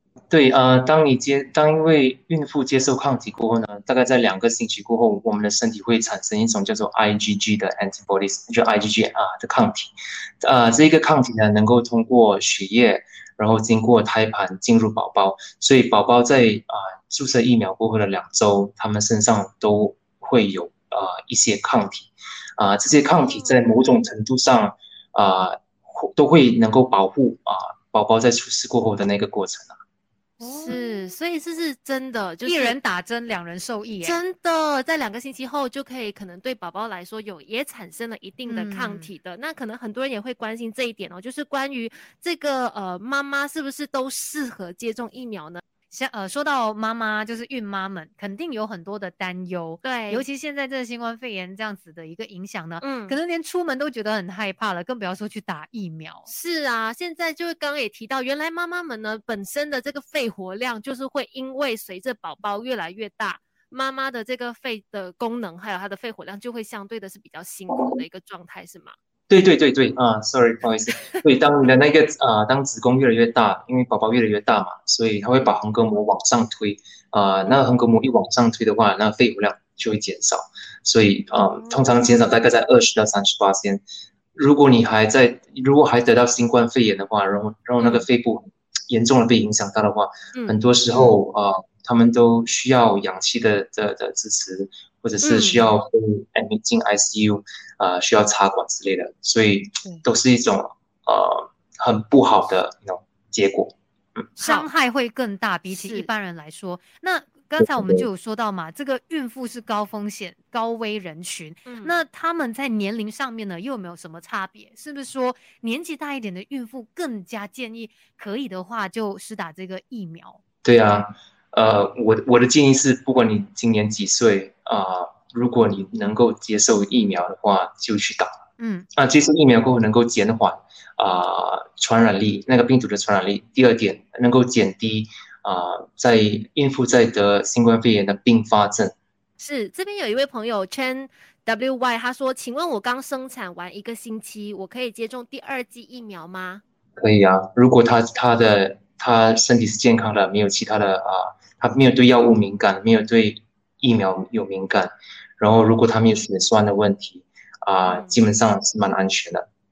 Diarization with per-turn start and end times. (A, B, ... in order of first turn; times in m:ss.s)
0:00.3-0:29.8 A
0:23.2-0:23.6 B
0:30.4-0:31.0 C
0:30.4-0:32.8 B
0:32.4-0:34.2 C
0:34.0-0:45.6 B
0:38.5-0:39.1 C
0:45.9-0:56.3 C
0:49.8-0:50.2 B
0:52.8-0:53.2 B
0:56.3-1:09.0 B
1:09.3-1:23.8 A
1:21.3-1:22.4 B
1:24.3-1:44.3 A
1:27.8-1:28.1 B
1:30.3-1:31.2 B
1:35.2-1:35.6 B
1:44.4-1:44.7 B
1:44.4-2:00.4 C
1:45.7-1:46.1 B
1:47.6-1:48.1 A
1:51.6-1:52.0 B
2:00.6-2:08.4 A
2:08.6-2:08.9 C
2:08.9-2:18.9 A
2:19.4-2:26.6 B
2:27.0-2:39.4 A
2:37.8-2:38.1 B